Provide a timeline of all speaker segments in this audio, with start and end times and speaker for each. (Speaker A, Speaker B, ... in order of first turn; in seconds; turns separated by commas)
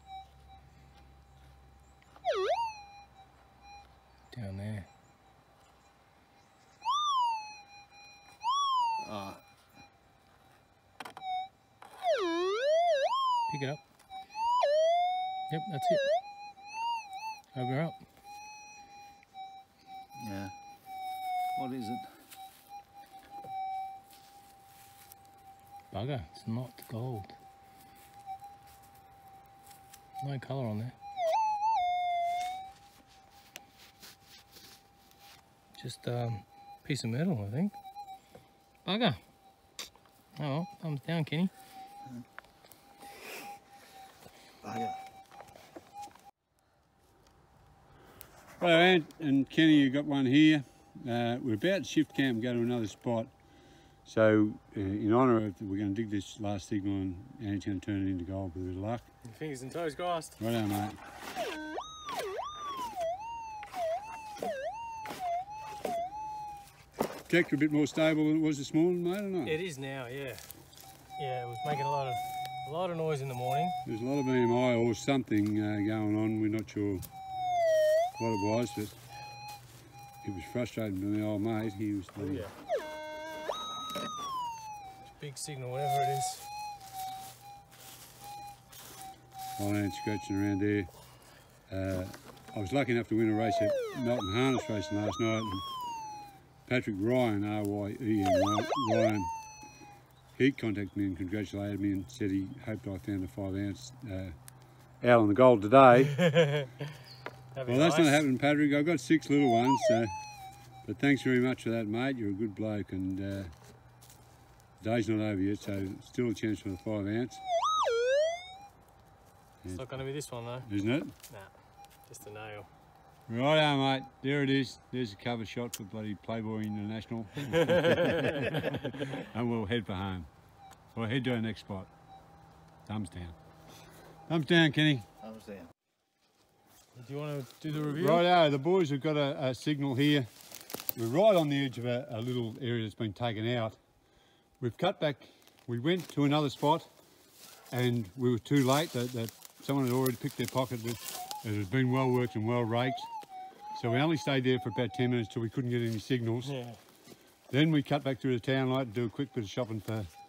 Speaker A: 4.3-4.9, Speaker B: 9.0-9.4, Speaker A: 13.5-13.8, Speaker A: 15.5-16.0, Speaker A: 17.5-18.0, Speaker B: 20.2-20.5, Speaker B: 21.6-22.1, Speaker A: 25.9-27.3, Speaker A: 30.2-30.9, Speaker A: 35.8-37.7, Speaker A: 38.8-39.2, Speaker A: 40.4-41.5, Speaker B: 44.6-45.0, Speaker C: 48.6-53.3, Speaker C: 54.0-59.1, Speaker A: 59.2-60.4, Speaker C: 60.4-61.0, Speaker C: 67.3-69.6, Speaker A: 69.4-70.4, Speaker A: 71.2-73.8, Speaker C: 73.8-77.0, Speaker C: 78.2-79.0, Speaker C: 80.2-82.5, Speaker A: 82.2-82.5, Speaker A: 85.1-86.5, Speaker C: 89.6-91.0, Speaker C: 91.7-95.7, Speaker C: 96.7-99.3, Speaker C: 100.3-104.4, Speaker C: 105.0-106.2, Speaker A: 106.2-106.7, Speaker A: 107.5-108.2, Speaker C: 107.7-110.1, Speaker C: 110.8-113.5, Speaker C: 114.8-117.4, Speaker C: 119.6-119.9, Speaker A: 119.7-120.7, Speaker C: 120.6-121.1, Speaker A: 122.0-122.7, Speaker C: 123.3-130.3, Speaker A: 127.5-128.5, Speaker C: 130.9-131.9, Speaker C: 132.8-133.3, Speaker C: 134.3-135.1, Speaker B: 135.2-135.7, Speaker A: 136.9-138.3, Speaker C: 137.7-140.3, Speaker C: 140.9-143.8, Speaker C: 144.6-146.9, Speaker C: 147.7-153.1, Speaker C: 153.7-156.5, Speaker A: 156.4-156.8, Speaker C: 157.5-160.1